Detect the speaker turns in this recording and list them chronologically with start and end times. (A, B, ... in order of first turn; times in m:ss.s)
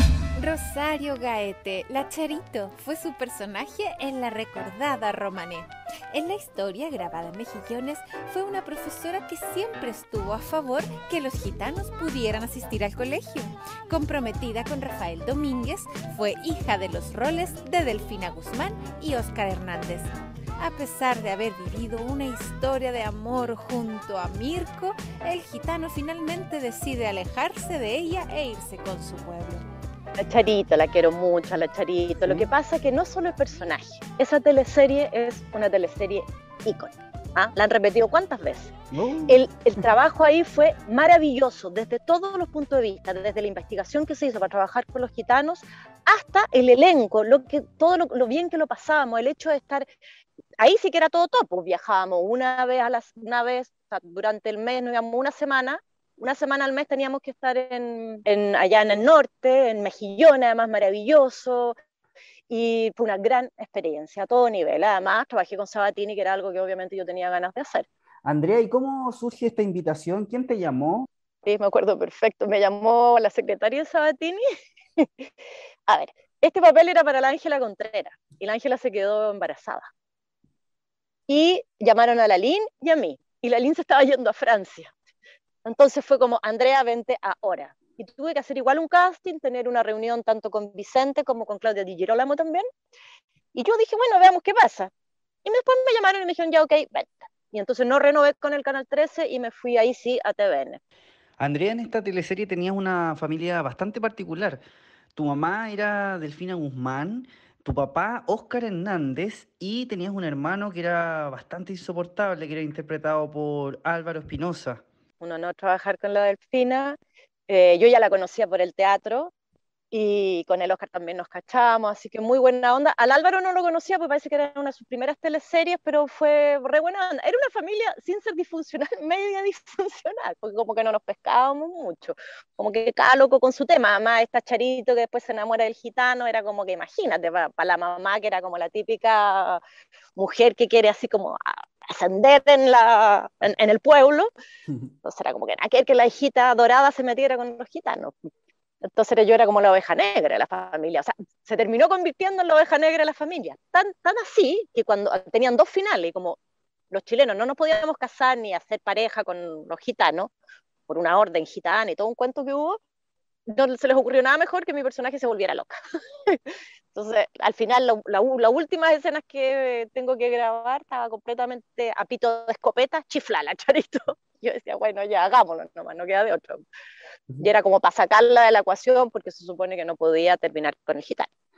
0:00.4-0:29.6 A
0:30.2-0:38.7 B
0:38.9-0:39.4 C
0:39.3-0:49.8 B
0:50.6-1:01.8 B
1:02.5-1:07.8 B
1:08.2-1:11.1 C
1:11.4-1:14.4 B
1:15.0-1:15.3 B
1:15.9-1:19.9 B
1:21.3-1:24.9 B
1:25.6-1:32.7 B
1:33.5-1:34.9 B
1:35.4-1:40.8 B
1:41.4-1:44.6 C
1:45.2-1:54.8 C
1:55.2-1:57.0 B
1:57.5-1:59.3 B
1:59.9-2:19.6 B
2:20.2-2:24.3 B
2:25.0-2:28.1 B
2:28.8-2:36.4 B
2:36.9-2:40.3 B
2:40.9-2:42.8 B
2:43.5-2:45.7 B
2:46.2-2:56.6 B
2:57.4-3:01.3 B